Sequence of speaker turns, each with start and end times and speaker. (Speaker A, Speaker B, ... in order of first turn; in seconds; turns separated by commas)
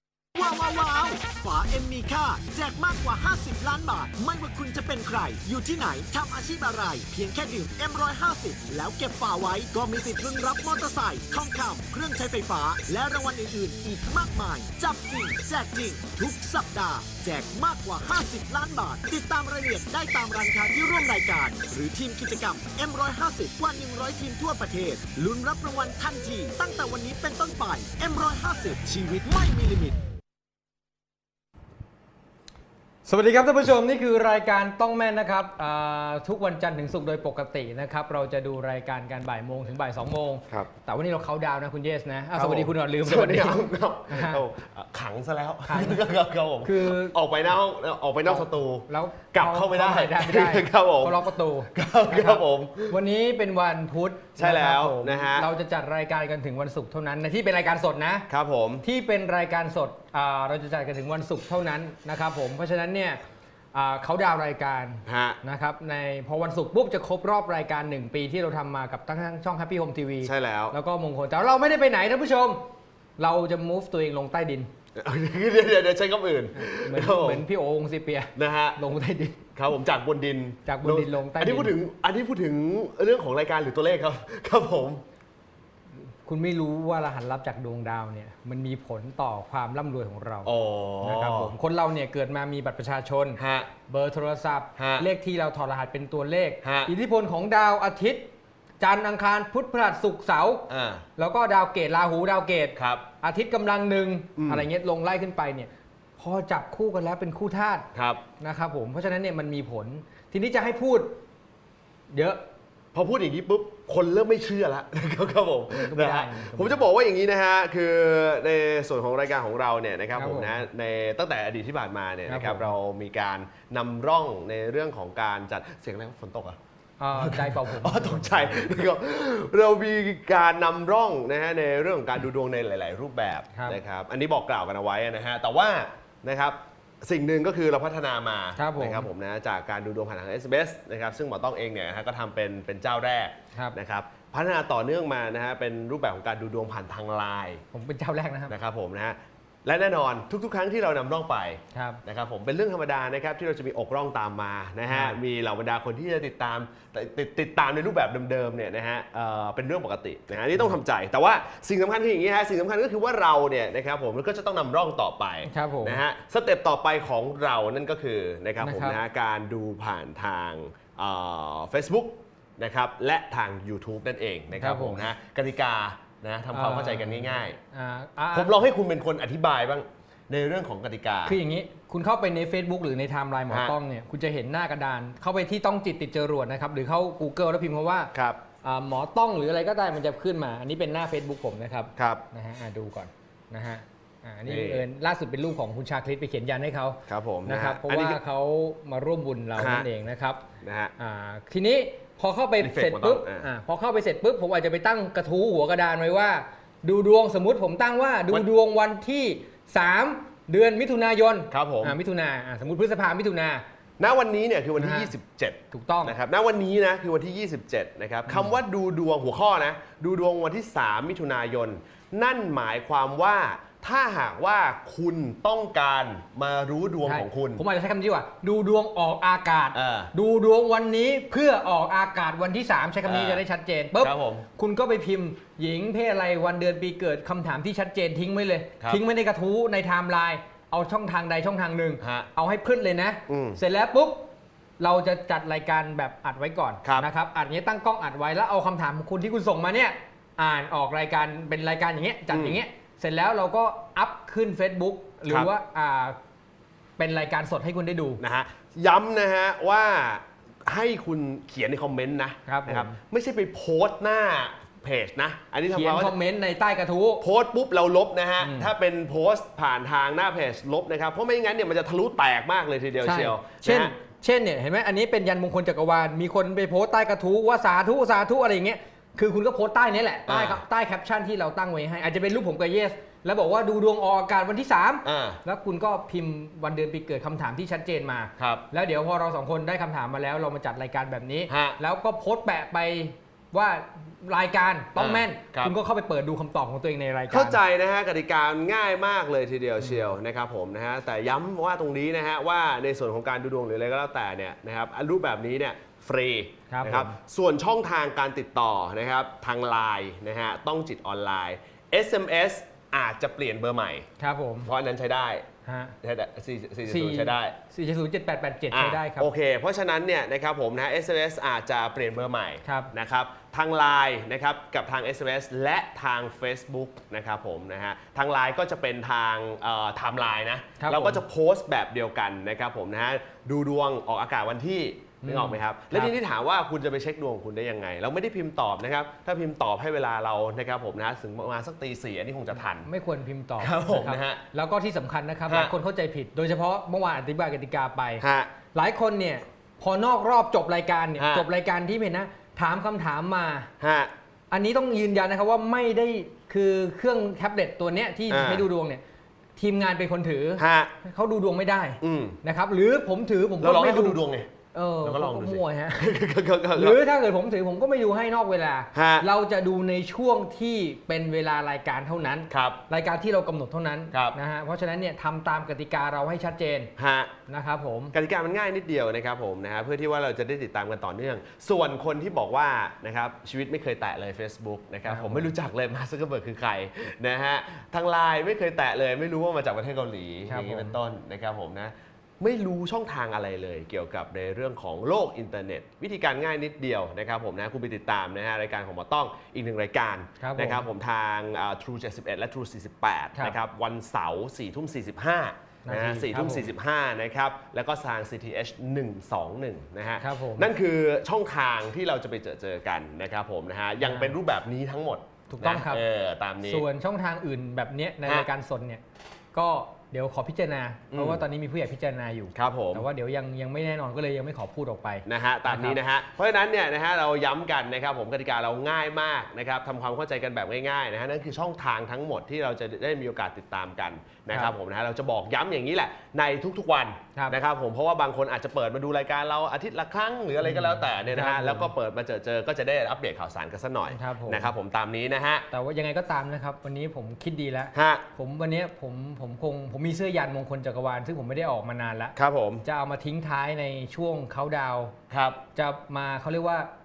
Speaker A: 0.3-30.0, Speaker B: 33.0-44.4, Speaker C: 42.4-53.0, Speaker B: 45.7-46.0, Speaker B: 46.6-47.2, Speaker B: 48.2-58.3, Speaker C: 54.4-55.5, Speaker C: 58.3-58.8, Speaker B: 58.8-63.2, Speaker B: 63.7-72.6, Speaker C: 65.0-65.4, Speaker C: 70.2-70.8, Speaker B: 73.2-74.7, Speaker C: 75.0-77.5, Speaker B: 76.5-79.4, Speaker C: 78.3-78.8, Speaker C: 79.5-85.0, Speaker B: 80.7-81.8, Speaker B: 86.2-98.3, Speaker C: 90.4-91.5, Speaker C: 93.4-93.7, Speaker C: 94.8-95.1, Speaker C: 96.6-96.9, Speaker B: 98.8-107.9, Speaker C: 100.7-101.0, Speaker C: 102.8-103.0, Speaker C: 104.4-104.7, Speaker C: 107.9-108.2, Speaker B: 108.4-111.2, Speaker B: 112.1-112.4, Speaker C: 112.9-126.6, Speaker B: 115.7-116.9, Speaker B: 120.2-120.5, Speaker B: 122.3-122.7, Speaker B: 127.0-128.8, Speaker C: 127.2-147.6, Speaker B: 133.5-133.8, Speaker B: 138.6-139.1, Speaker B: 147.7-148.5, Speaker C: 148.5-177.6, Speaker B: 151.7-152.0, Speaker B: 154.9-155.2, Speaker B: 165.4-166.0, Speaker B: 168.6-169.0, Speaker B: 174.5-175.1, Speaker B: 176.5-178.5, Speaker C: 178.3-181.4, Speaker B: 181.2-188.1, Speaker C: 183.5-183.7, Speaker C: 188.1-188.4, Speaker B: 188.6-200.4, Speaker C: 192.0-192.2, Speaker C: 194.4-194.8, Speaker C: 197.1-198.2, Speaker C: 199.6-199.9, Speaker C: 200.6-200.9, Speaker B: 201.0-213.6, Speaker C: 202.6-203.5, Speaker C: 211.5-212.0, Speaker C: 214.0-227.6, Speaker B: 214.8-215.1, Speaker B: 215.7-216.2, Speaker B: 218.3-218.6, Speaker B: 227.1-244.2, Speaker C: 229.7-230.1, Speaker C: 233.0-233.4, Speaker C: 234.0-234.4, Speaker C: 242.0-242.3, Speaker C: 243.3-243.6, Speaker B: 244.8-256.1, Speaker C: 252.3-252.6, Speaker B: 257.0-258.2, Speaker C: 258.2-266.1, Speaker B: 262.5-263.0, Speaker B: 265.7-267.2, Speaker C: 267.2-273.9, Speaker B: 268.4-268.7, Speaker B: 273.0-297.6, Speaker C: 280.3-280.6, Speaker C: 285.0-285.4, Speaker C: 288.4-288.6, Speaker C: 291.5-291.8, Speaker C: 294.9-295.7, Speaker C: 297.3-314.1, Speaker B: 299.8-300.1, Speaker B: 306.7-307.1, Speaker B: 314.2-314.7, Speaker C: 314.6-315.4, Speaker B: 315.6-315.9, Speaker C: 316.0-317.6, Speaker B: 316.9-319.3, Speaker C: 318.7-342.9, Speaker B: 322.6-322.9, Speaker B: 330.8-331.2, Speaker B: 335.2-336.1, Speaker B: 342.7-353.7, Speaker C: 343.6-344.4, Speaker C: 345.5-345.7, Speaker C: 348.2-348.5, Speaker C: 351.2-351.5, Speaker C: 353.8-354.1, Speaker B: 354.5-359.0, Speaker C: 358.3-358.6, Speaker B: 359.6-364.2, Speaker C: 360.6-360.9, Speaker C: 362.0-362.4, Speaker C: 363.6-364.5, Speaker B: 364.7-366.2, Speaker C: 365.0-367.0, Speaker B: 366.7-376.9, Speaker C: 368.9-369.3, Speaker C: 372.5-372.8, Speaker C: 377.0-377.3, Speaker B: 377.5-378.1, Speaker C: 378.1-416.8, Speaker B: 385.1-385.5, Speaker B: 390.5-391.0, Speaker B: 400.4-400.8, Speaker B: 405.8-406.7, Speaker B: 410.2-410.7, Speaker B: 414.0-414.4, Speaker B: 415.5-416.0, Speaker B: 416.6-419.0, Speaker B: 419.5-426.0, Speaker C: 421.1-421.4, Speaker C: 422.5-423.1, Speaker C: 425.2-445.7, Speaker B: 440.6-441.9, Speaker B: 444.1-444.7, Speaker B: 445.7-455.1, Speaker C: 447.9-448.2, Speaker C: 452.4-452.8, Speaker C: 455.3-455.6, Speaker B: 455.7-456.9